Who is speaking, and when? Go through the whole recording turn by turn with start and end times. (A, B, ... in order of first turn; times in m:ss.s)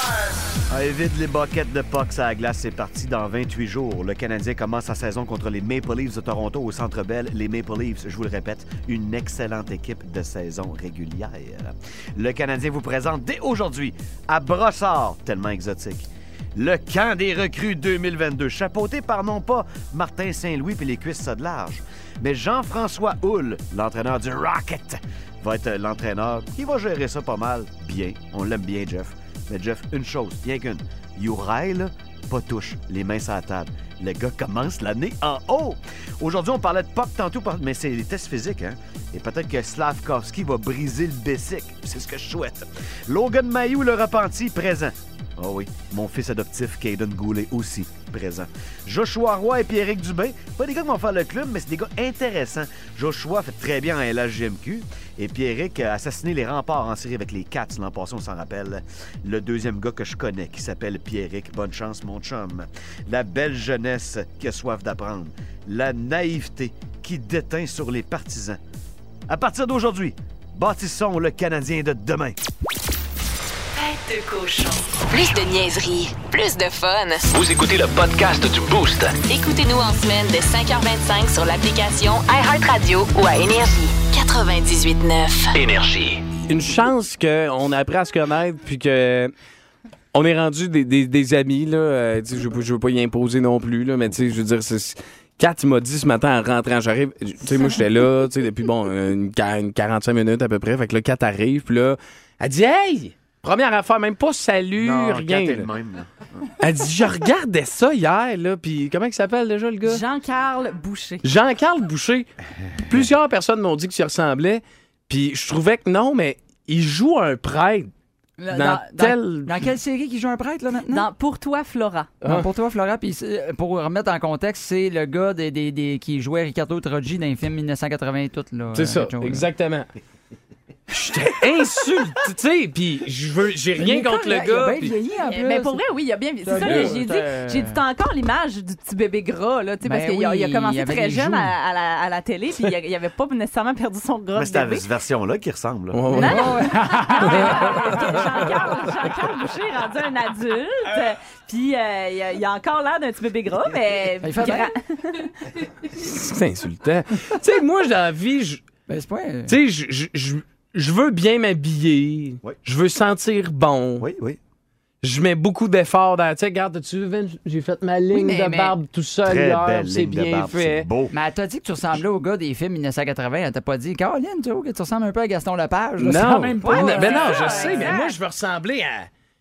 0:00.7-1:08.6 A
1:09.3-1:12.4 A
1:13.9-1:17.2 B
1:17.3-1:19.2 C
1:19.2-1:25.6 B
1:25.5-1:26.3 C
1:26.4-1:29.3 D
1:30.1-1:45.7 D
1:44.8-1:46.4 A
1:46.6-1:50.0 D
1:49.8-1:51.2 E
1:51.2-1:52.3 D
1:52.8-1:57.9 D
1:58.4-2:01.1 F
1:58.5-1:59.0 E
1:58.5-1:59.6 D
2:00.9-2:02.1 E
2:02.2-2:09.5 F
2:08.7-2:09.9 D
2:10.9-2:14.9 D
2:13.8-2:15.8 F
2:15.2-2:24.9 E
2:16.4-2:17.8 F
2:16.6-2:16.9 D
2:19.8-2:21.5 F
2:24.3-2:26.0 A
2:25.9-2:26.5 D
2:26.1-2:35.4 E
2:26.1-2:28.3 F
2:34.2-2:34.7 F
2:35.9-2:38.6 D
2:38.9-2:39.6 F
2:39.5-2:44.0 D
2:44.0-2:44.4 A
2:45.0-2:50.9 D
2:48.1-2:48.8 F
2:49.2-2:51.1 A
2:51.1-2:57.9 F
2:56.0-2:59.1 D
2:56.6-2:58.2 E